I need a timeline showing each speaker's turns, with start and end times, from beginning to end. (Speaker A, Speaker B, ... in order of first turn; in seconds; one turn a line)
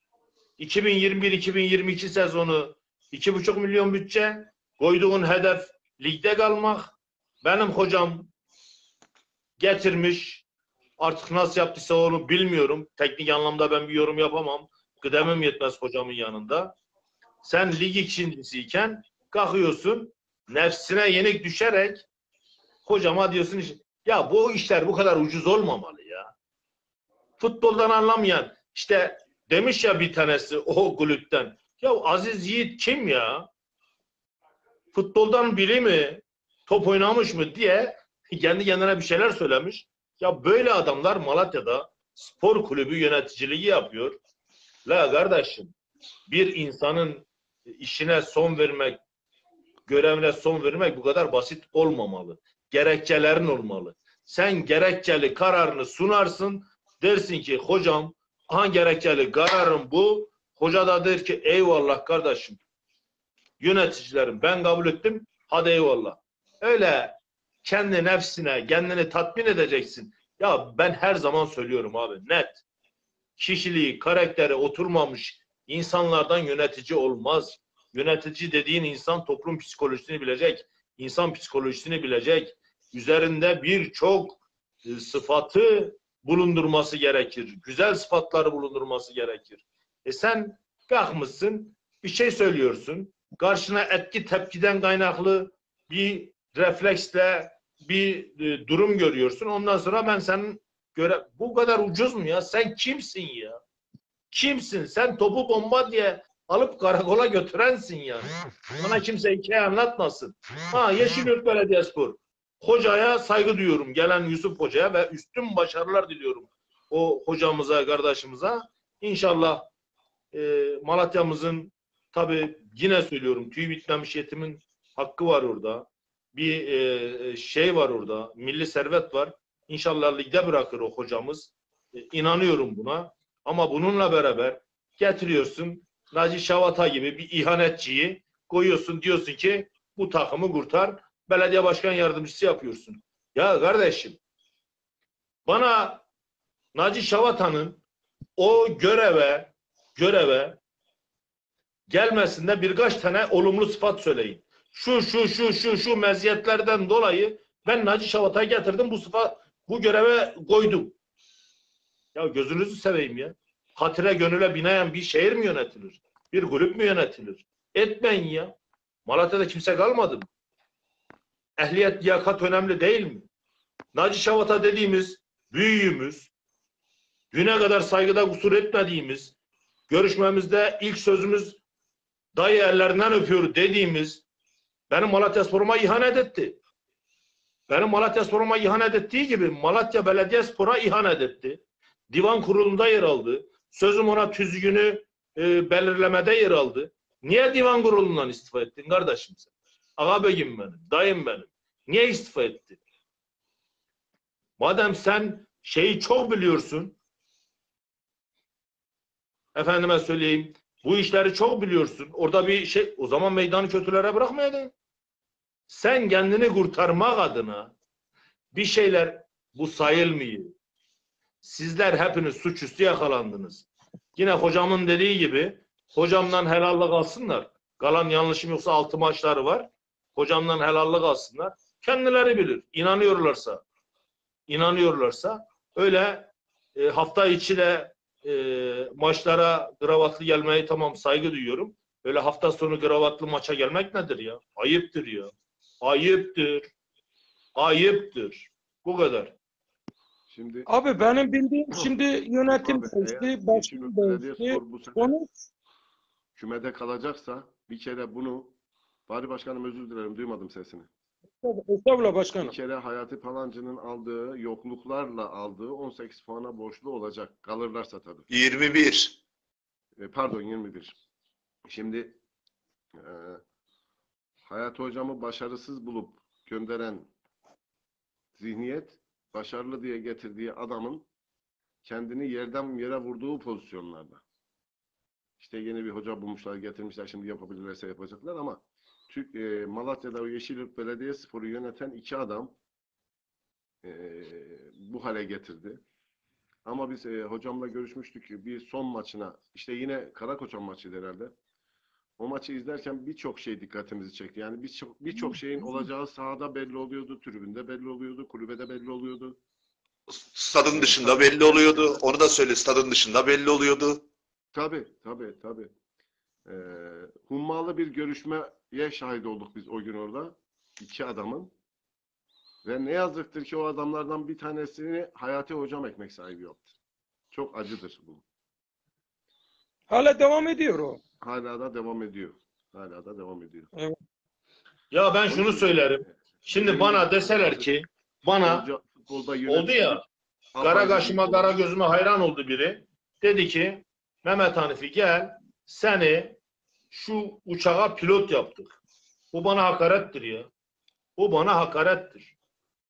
Speaker A: 0.6-8.3
Speaker A: 9.6-10.4
Speaker A: 11.0-16.8
Speaker A: 17.4-22.1
Speaker A: 22.9-26.3
Speaker A: 27.4-33.5
Speaker A: 34.9-44.2
Speaker A: 44.9-45.7
Speaker A: 46.3-49.0
Speaker A: 49.9-62.6
Speaker A: 63.6-72.6
Speaker A: 73.4-103.6
Speaker A: 104.3-119.7
Speaker A: 120.3-144.2
Speaker A: 145.5-146.1
Speaker A: 146.7-147.8
Speaker A: 148.4-150.6
Speaker A: 151.9-161.0
Speaker A: 162.2-168.6
Speaker A: 169.1-170.3
Speaker A: 171.6-173.3
Speaker A: 173.9-176.3
Speaker A: 177.3-179.3
Speaker A: 179.9-181.6
Speaker A: 182.3-184.2
Speaker A: 184.9-186.6
Speaker A: 187.7-202.8
Speaker A: 204.6-207.0
Speaker A: 209.6-214.7
Speaker A: 215.7-217.7
Speaker A: 218.5-220.5
Speaker A: 221.4-233.6
Speaker A: 234.5-246.7
Speaker A: 247.6-249.3
Speaker B: 250.3-250.7
Speaker C: 250.7-255.3
Speaker B: 252.4-255.2
Speaker B: 256.4-258.6
Speaker B: 259.1-260.9
Speaker C: 261.4-262.6
Speaker B: 262.4-268.3
Speaker D: 268.3-269.2
Speaker B: 270.0-271.0
Speaker B: 271.7-272.2
Speaker B: 273.0-273.4
Speaker B: 274.5-277.1
Speaker B: 278.4-281.1
Speaker B: 281.8-284.2
Speaker B: 285.4-292.6
Speaker B: 293.8-295.8
Speaker B: 296.6-301.3
Speaker B: 302.2-309.4
Speaker D: 310.3-314.0
Speaker B: 310.7-312.0
Speaker B: 314.5-315.7
Speaker B: 316.5-321.5
Speaker B: 322.6-326.7
Speaker B: 327.3-328.2
Speaker C: 329.9-331.0
Speaker B: 331.2-333.7
Speaker A: 334.9-338.7
Speaker B: 335.3-337.7
Speaker B: 338.4-340.0
Speaker A: 339.5-340.0
Speaker B: 340.6-341.6
Speaker A: 340.6-346.4
Speaker A: 346.9-348.8
Speaker A: 349.3-350.5
Speaker A: 351.2-352.3